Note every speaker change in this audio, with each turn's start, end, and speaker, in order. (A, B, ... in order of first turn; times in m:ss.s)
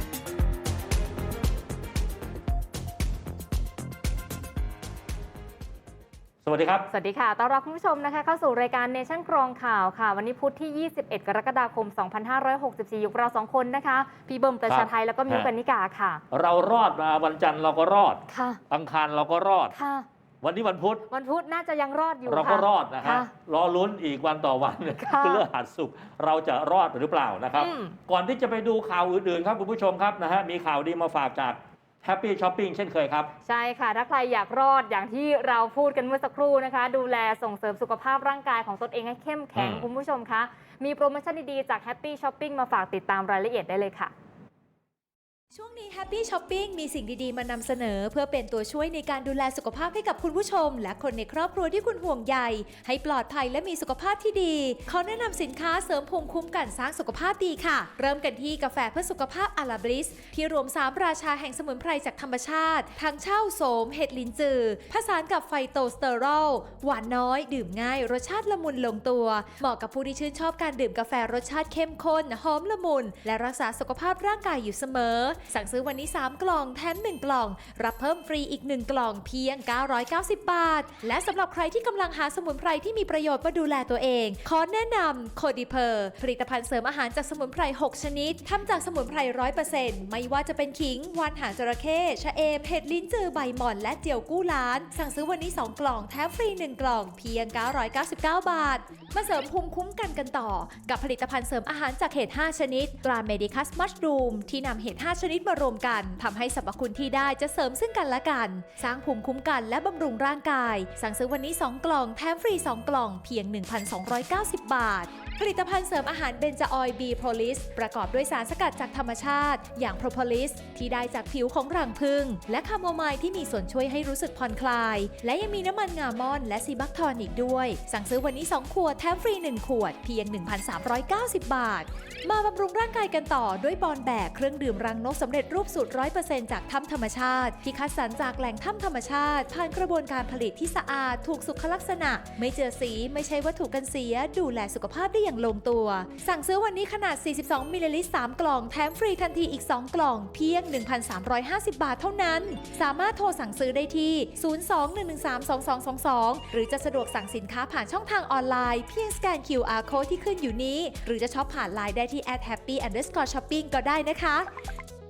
0:06.4-0:06.8 A
0:06.9-0:16.2 B
0:14.7-0:15.5 A
0:16.3-0:19.8 A
0:18.3-0:18.6 B
0:19.7-0:20.0 B
0:20.4-0:21.1 A
0:21.1-0:23.3 B
0:22.2-0:33.3 A
0:25.0-0:25.4 B
0:27.6-0:28.0 B
0:33.4-0:44.1 B
0:39.6-0:39.9 A
0:45.5-2:44.5 C